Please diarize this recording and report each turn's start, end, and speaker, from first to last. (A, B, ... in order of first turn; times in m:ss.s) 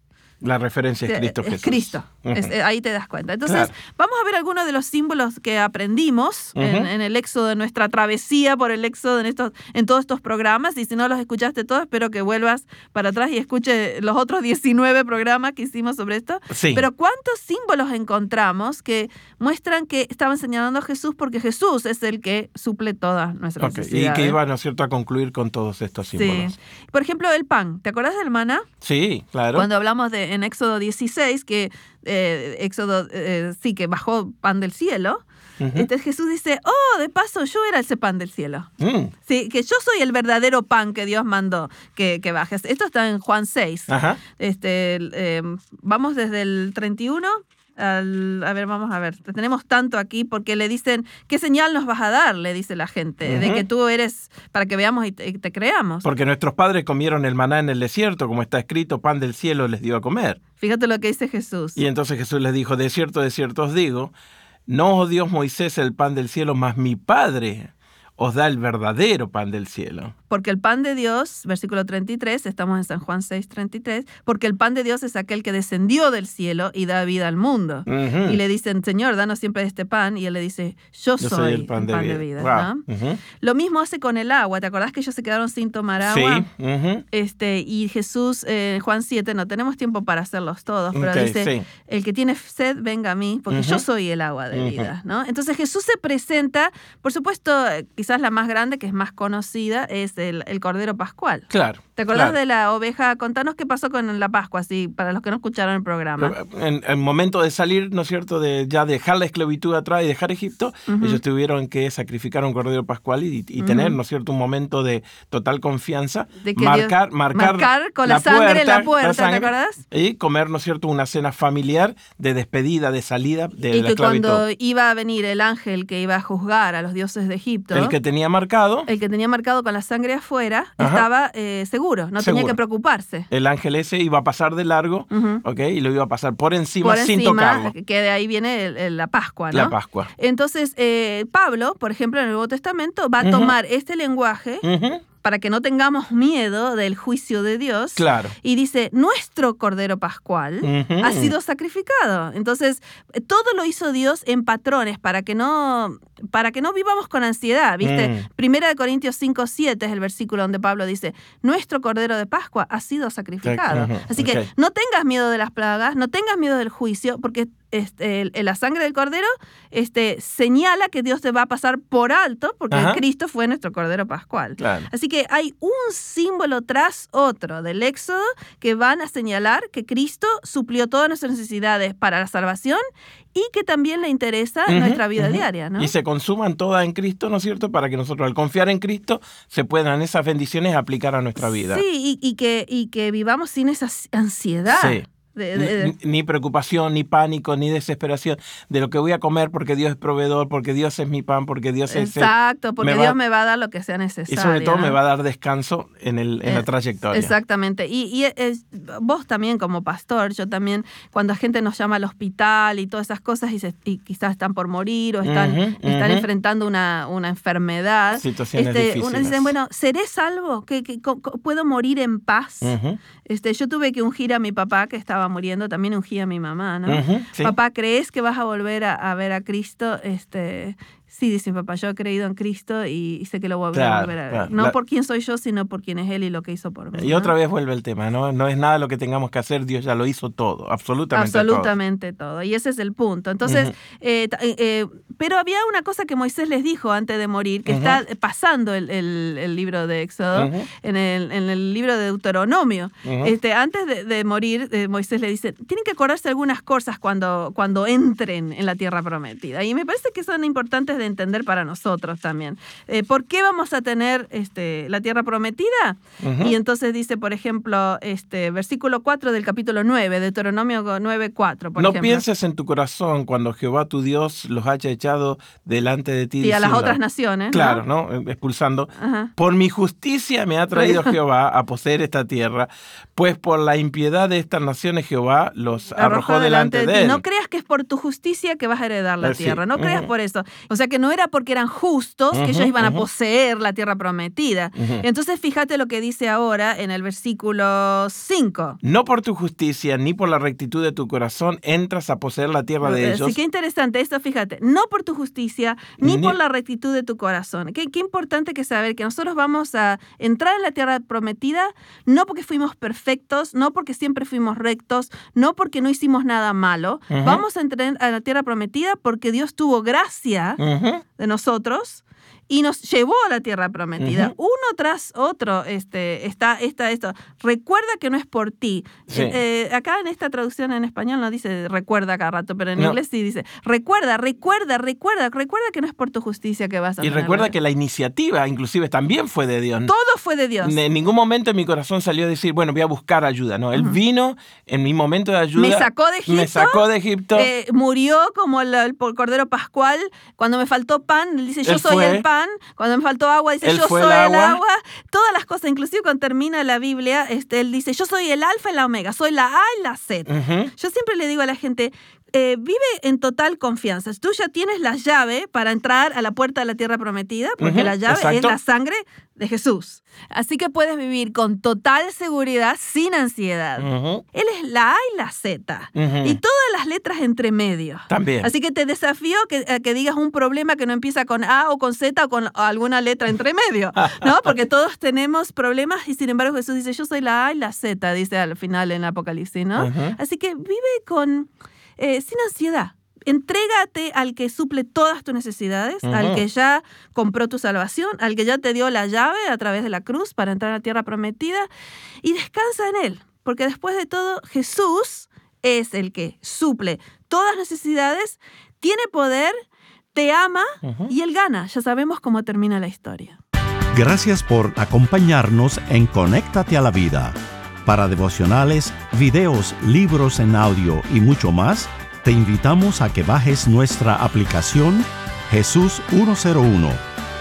0:00.4-0:02.5 A
0:01.0-0:24.4 B
0:03.4-0:03.7 A
0:06.6-0:06.9 A
0:16.5-0:16.8 A
0:23.6-0:26.6 A
0:26.1-0:28.7 B
0:28.8-0:29.6 A
0:29.5-0:38.7 B
0:35.6-0:35.9 A
0:38.8-0:39.1 A
0:39.2-0:56.0 B
0:43.9-0:44.2 A
0:53.2-0:53.6 A
0:56.0-1:00.4 A
1:00.6-1:01.8 B
1:01.8-1:04.1 A
1:04.7-1:10.1 A
1:10.3-1:22.8 B
1:17.9-1:18.4 A
1:21.2-1:23.2 A
1:23.4-1:26.4 B
1:26.0-1:27.0 A
1:27.1-1:46.4 B
1:30.9-1:31.6 A
1:33.5-1:33.8 A
1:34.5-1:34.9 A
1:41.5-1:42.4 A
1:46.2-2:04.4 A
1:50.9-1:51.2 B
1:53.6-1:54.0 B
1:56.4-1:59.8 B
2:03.7-2:08.0 B
2:07.7-2:08.9 A
2:08.9-2:13.3 B
2:10.8-2:11.0 A
2:12.2-2:12.6 A
2:13.3-2:17.7 A
2:15.1-2:15.4 B
2:16.8-2:24.6 B
2:19.5-2:20.1 A
2:23.2-2:23.5 A
2:24.6-2:25.0 A
2:25.2-3:02.8 B
2:28.0-2:28.3 A
2:30.6-2:31.3 A
2:37.8-2:38.2 A
2:43.4-2:44.5 A
2:52.7-2:53.0 A
2:54.6-2:54.9 A
3:03.3-3:05.9 B
3:04.7-3:11.8 A
3:11.4-3:15.9 B
3:14.7-3:15.0 A
3:15.5-3:23.2 A
3:21.9-3:25.0 B
3:24.3-3:27.3 A
3:26.4-3:57.3 B
3:35.2-3:36.2 A
3:38.2-3:39.5 A
3:42.6-3:43.0 A
3:46.8-3:47.5 A
3:53.7-3:54.7 A
3:57.0-4:01.7 A
4:01.1-4:32.2 B
4:03.4-4:03.7 A
4:07.7-4:08.0 A
4:10.3-4:10.7 A
4:13.0-4:13.3 A
4:26.2-4:26.6 A
4:31.8-4:37.0 A
4:36.4-4:37.8 B
4:37.5-4:47.2 A
4:39.0-4:39.3 B
4:40.7-4:41.1 B
4:46.0-4:58.8 B
4:49.2-4:50.1 A
4:52.3-4:53.0 A
4:54.8-4:55.0 A
4:58.8-5:03.4 A
5:02.8-5:20.6 B
5:06.0-5:06.4 A
5:17.1-5:17.4 A
5:20.6-5:21.0 A
5:21.2-5:37.5 B
5:24.0-5:24.3 A
5:29.1-5:29.4 A
5:37.0-5:39.9 A
5:39.8-5:40.8 B
5:40.6-5:47.5 A
5:45.6-6:41.7 B
5:51.6-5:52.2 A
5:53.6-5:54.6 A
6:00.3-6:00.7 A
6:07.6-6:08.6 A
6:13.8-6:14.2 A
6:16.0-6:16.4 A
6:18.1-6:18.5 A
6:24.1-6:24.3 A
6:29.8-6:30.2 A
6:36.0-6:36.4 A
6:42.2-6:49.6 B
6:50.1-6:53.4 B
6:50.8-6:51.1 A
6:53.9-7:07.0 C